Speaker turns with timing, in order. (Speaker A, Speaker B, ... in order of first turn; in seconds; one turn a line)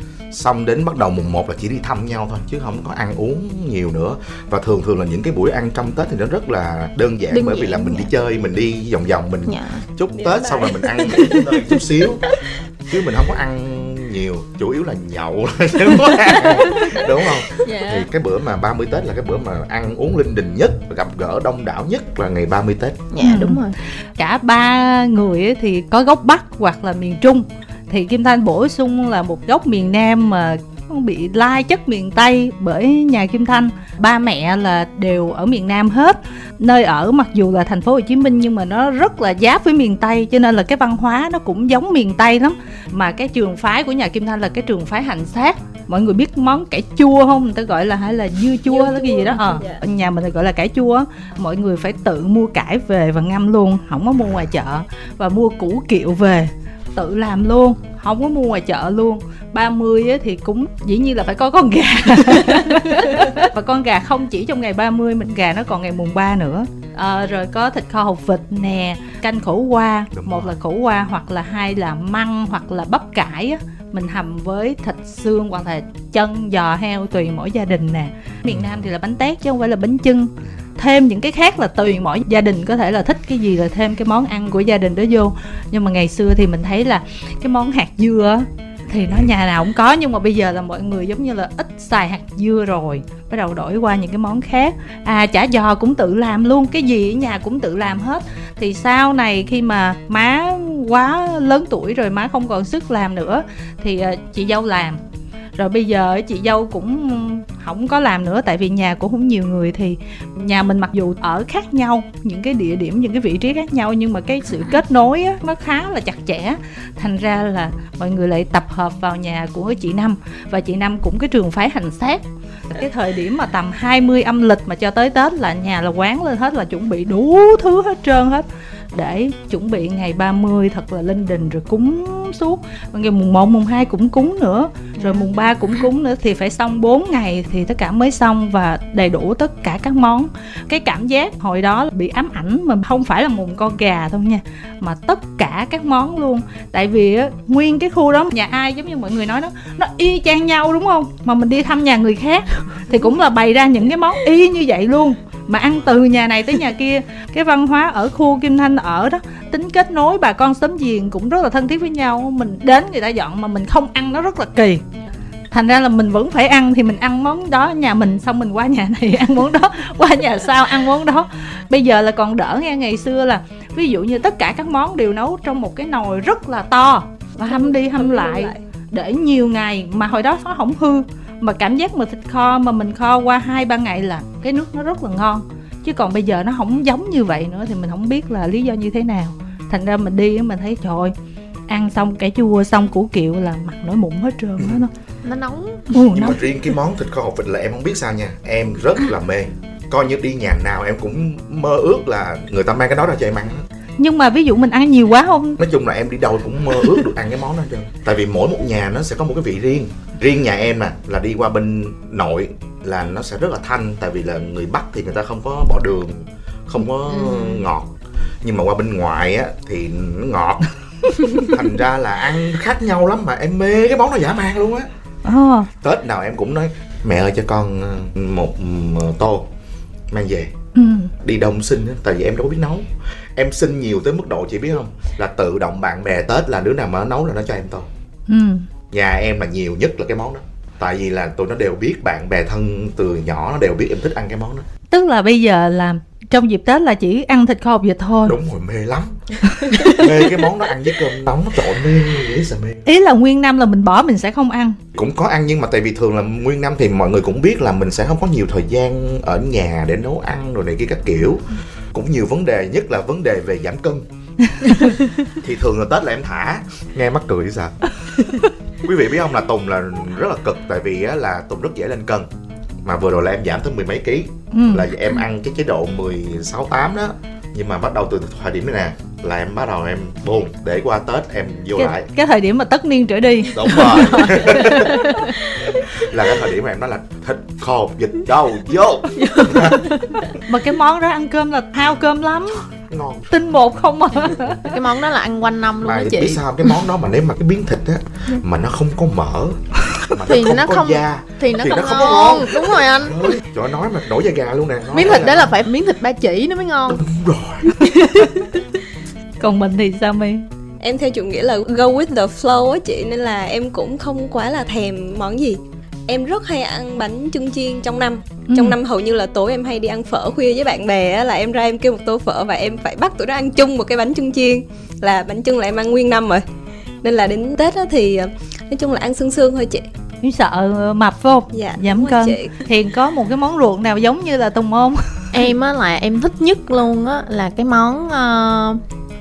Speaker A: 0.3-12.3
Speaker B: 7.3-8.1
Speaker B: 9.4-9.8
Speaker C: 10.2-11.8
Speaker A: 12.9-23.0
Speaker B: 17.5-18.1
Speaker B: 23.1-23.8
Speaker D: 23.2-23.6
Speaker D: 24.2-105.0
Speaker C: 48.7-49.8
Speaker A: 70.1-70.5
Speaker A: 78.5-78.9
Speaker D: 105.5-164.8
Speaker B: 135.0-135.3
Speaker D: 165.5-191.1
Speaker C: 177.5-178.6
Speaker D: 191.7-194.9
Speaker B: 195.2-195.9
Speaker D: 195.9-196.4
Speaker A: 196.1-203.6
Speaker D: 204.0-205.6
Speaker A: 205.6-224.9
Speaker B: 217.1-217.6
Speaker D: 225.2-225.7
Speaker A: 225.8-229.4
Speaker A: 230.1-230.5
Speaker D: 230.7-231.1
Speaker A: 231.2-237.9
Speaker D: 238.3-238.6
Speaker A: 238.9-244.7
Speaker D: 244.9-248.4
Speaker A: 248.2-249.1
Speaker D: 249.6-250.0
Speaker A: 249.8-252.8
Speaker D: 252.8-254.8
Speaker A: 254.9-264.0
Speaker D: 264.5-264.9
Speaker A: 265.4-267.8
Speaker A: 268.8-272.3
Speaker A: 272.8-282.1
Speaker D: 274.5-274.9
Speaker D: 281.8-284.5
Speaker A: 283.5-285.1
Speaker B: 283.8-285.8
Speaker A: 285.7-289.9
Speaker B: 289.2-290.2
Speaker D: 290.4-292.6
Speaker A: 292.9-293.3
Speaker D: 293.3-294.6
Speaker B: 294.6-296.4
Speaker A: 295.8-305.5
Speaker B: 300.3-303.4
Speaker B: 304.9-307.0
Speaker A: 306.9-307.7
Speaker D: 309.4-310.4
Speaker C: 310.8-326.4
Speaker D: 318.5-318.8
Speaker C: 327.0-329.9
Speaker D: 330.2-335.3
Speaker C: 331.5-332.6
Speaker B: 335.3-338.8